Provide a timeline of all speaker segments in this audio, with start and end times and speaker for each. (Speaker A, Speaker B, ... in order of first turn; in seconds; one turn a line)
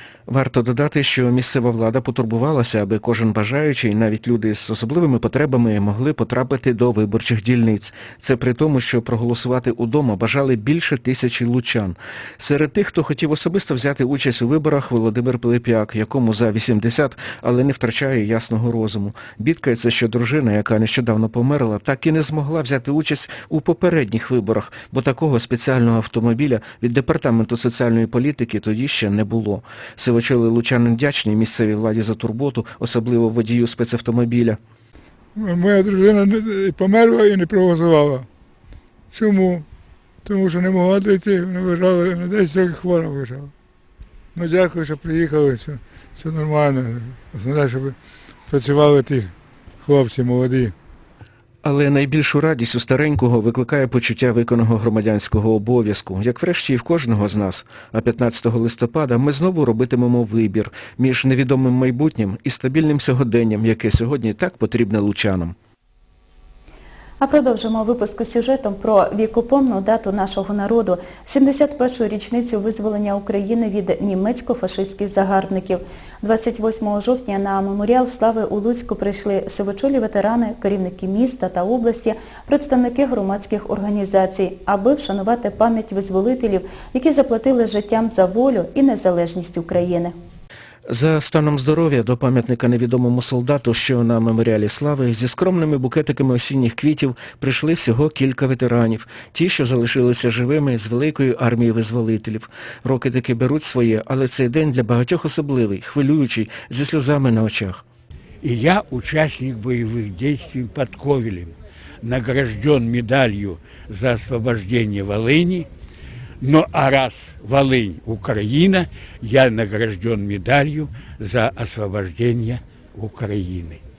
Speaker A: 0.3-34.6
Speaker B: 35.4-38.3
Speaker B: 39.1-39.7
Speaker B: 40.2-43.5
Speaker B: 44.4-48.0
Speaker B: 48.5-50.7
Speaker A: 51.6-65.5
Speaker C: 67.2-90.1
Speaker A: 90.9-107.8
Speaker D: 108.4-115.7
Speaker D: 116.4-123.8